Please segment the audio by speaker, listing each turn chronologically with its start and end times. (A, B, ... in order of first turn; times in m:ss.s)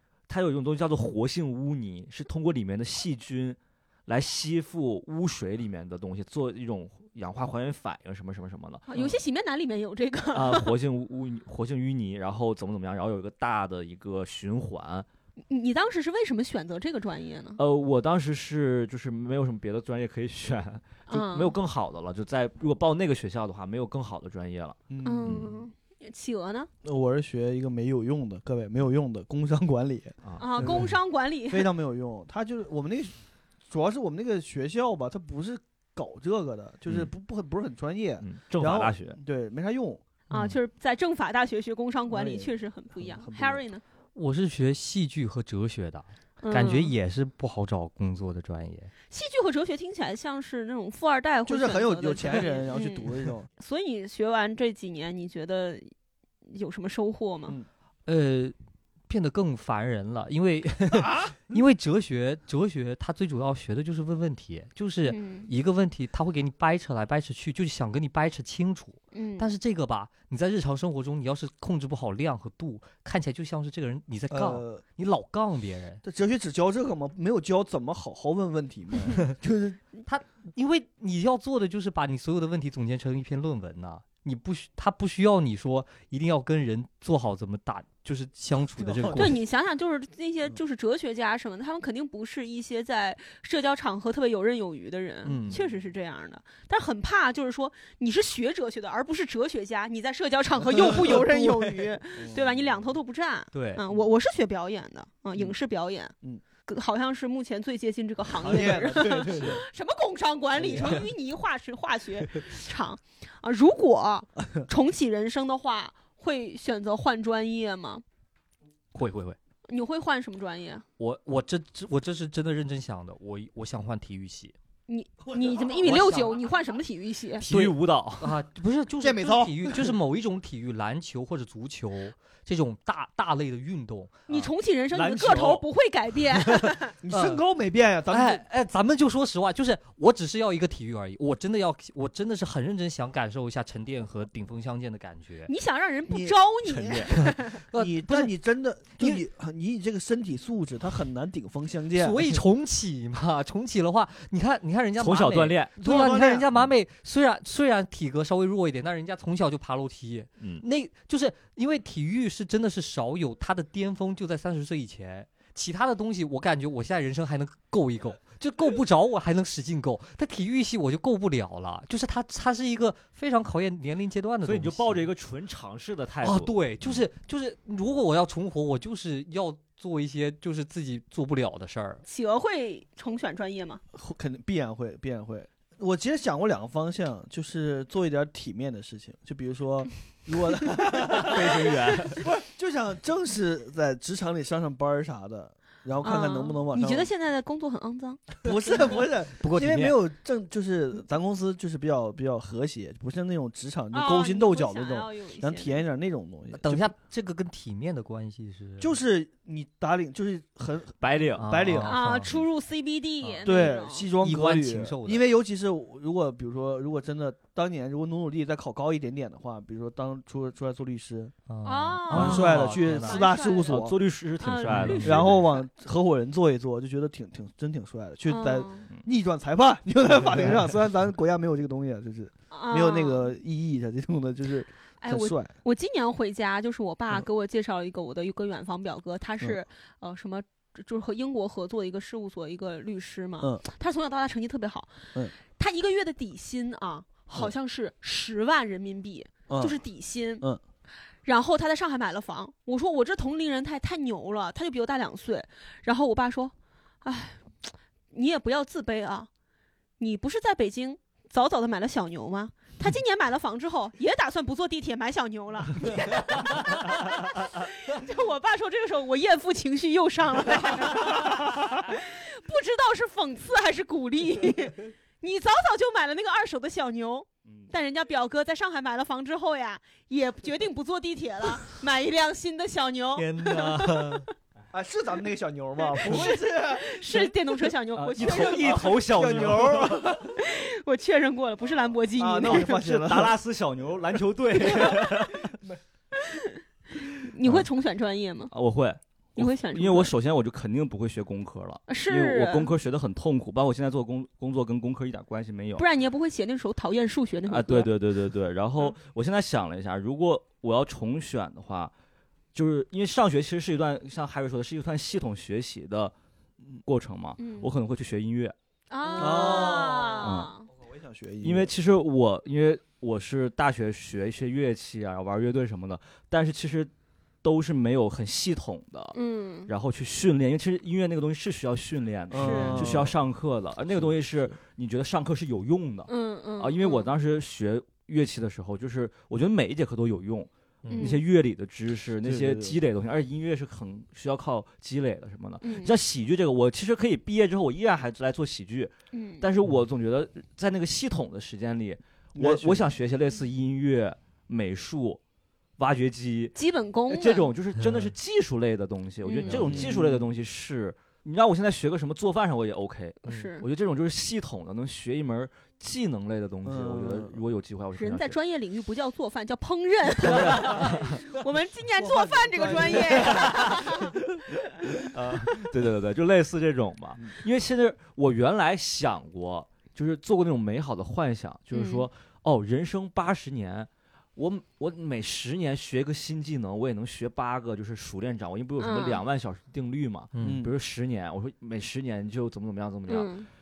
0:00.3-0:09.2 A
0:08.9-0:10.7 B
0:10.3-0:15.1 A
0:15.5-0:17.6 B
0:17.6-0:25.6 A
0:21.1-0:21.6 B
0:24.9-0:25.4 C
0:25.0-0:26.7 B
0:26.8-0:31.0 C
0:30.2-0:30.8 A
0:30.4-0:31.7 B
0:31.5-0:33.1 C
0:33.7-0:40.0 C
0:38.2-0:39.2 A
0:40.3-0:43.8 B
0:40.3-0:40.6 D
0:42.1-0:43.6 C
0:44.1-0:48.9 D
0:46.4-0:46.9 B
0:49.1-0:55.9 B
0:51.5-0:53.5 C
0:56.5-0:57.6 B
0:58.1-0:58.6 D
0:59.1-1:16.0 D
1:00.9-1:01.4 C
1:05.1-1:05.5 B
1:09.1-1:09.5 B
1:14.3-1:14.8 C
1:16.0-1:19.8 C
1:20.0-1:29.4 D
1:28.8-1:29.4 C
1:29.1-1:46.1 B
1:35.2-1:35.6 D
1:40.7-1:42.5 C
1:43.5-1:43.8 D
1:46.6-1:58.0 B
1:48.4-1:49.6 C
1:50.6-1:51.0 C
1:58.9-1:59.4 D
1:59.7-2:00.8 B
2:01.0-2:04.6 D
2:04.9-2:07.5 B
2:05.8-2:06.4 D
2:07.4-2:14.2 D
2:07.4-2:08.4 A
2:09.0-2:10.0 C
2:14.3-2:17.0 B
2:14.9-2:15.6 C
2:16.6-2:17.4 D
2:17.0-2:18.4 C
2:18.1-2:25.5 D
2:25.5-2:27.6 B
2:26.1-2:26.4 C
2:27.0-2:28.3 D
2:27.7-2:32.4 C
2:29.0-2:29.2 D
2:32.0-2:55.0 D
2:35.0-2:35.8 A
2:35.8-2:36.5 C
2:54.4-2:57.0 A
2:56.2-3:02.0 D
3:02.1-3:03.8 B
3:03.9-3:17.1 C
3:11.1-3:12.2 A
3:16.0-3:18.2 B
3:18.4-3:26.9 C
3:19.4-3:20.0 D
3:23.9-3:25.8 B
3:26.5-3:28.9 D
3:28.8-3:32.0 C
3:31.0-3:31.5 A
3:31.4-3:32.4 D
3:31.8-3:34.1 B
3:33.4-3:41.3 C
3:34.2-3:35.2 D
3:41.5-3:43.2 D
3:41.6-3:43.8 B
3:42.1-3:44.0 C
3:43.7-3:45.5 A
3:44.4-3:45.2 B
3:44.7-3:45.2 D
3:45.0-3:55.5 C
3:48.3-3:48.9 B
3:52.5-3:53.3 B
3:55.0-4:10.5 B
4:09.5-4:09.8 C
4:11.2-4:19.3 B
4:20.0-4:44.3 B
4:37.5-4:37.7 A
4:43.2-4:44.3 D
4:44.7-4:47.3 C
4:45.9-4:49.0 B
4:48.0-4:50.1 A
4:48.2-4:50.4 C
4:50.2-4:52.8 B
4:52.2-4:53.4 C
4:52.5-4:55.6 A
4:56.2-4:56.6 B
4:57.1-4:58.5 B
4:58.5-5:05.9 A
4:59.4-5:00.1 B
5:01.9-5:02.7 B
5:05.8-5:07.9 B
5:07.5-5:11.9 A
5:12.5-5:16.1 A
5:16.8-5:18.6 A
5:17.4-5:17.7 B
5:18.9-5:20.7 B
5:19.2-5:21.7 C
5:20.2-5:20.5 A
5:21.4-5:26.9 A
5:27.4-5:55.2 A
5:29.1-5:29.7 B
5:32.3-5:33.2 C
5:32.4-5:32.9 B
5:34.0-5:34.5 C
5:36.1-5:37.1 B
5:40.8-5:41.2 D
5:40.9-5:41.2 B
5:42.2-5:42.8 C
5:45.6-5:45.9 B
5:49.1-5:49.5 B
5:52.4-5:52.9 C
5:55.8-5:56.6 A
5:56.6-5:57.5 B
5:57.1-6:08.4 A
5:57.8-5:58.1 D
5:59.2-5:59.7 B
5:59.5-6:00.3 C
6:03.2-6:03.7 B
6:06.6-6:07.4 C
6:08.0-6:14.2 B
6:10.2-6:11.2 A
6:12.0-6:14.0 C
6:13.2-6:13.8 A
6:14.8-6:15.7 B
6:15.1-6:33.3 A
6:21.7-6:22.1 B
6:28.8-6:29.2 B
6:30.4-6:30.6 D
6:30.4-6:30.7 C
6:33.1-6:33.5 B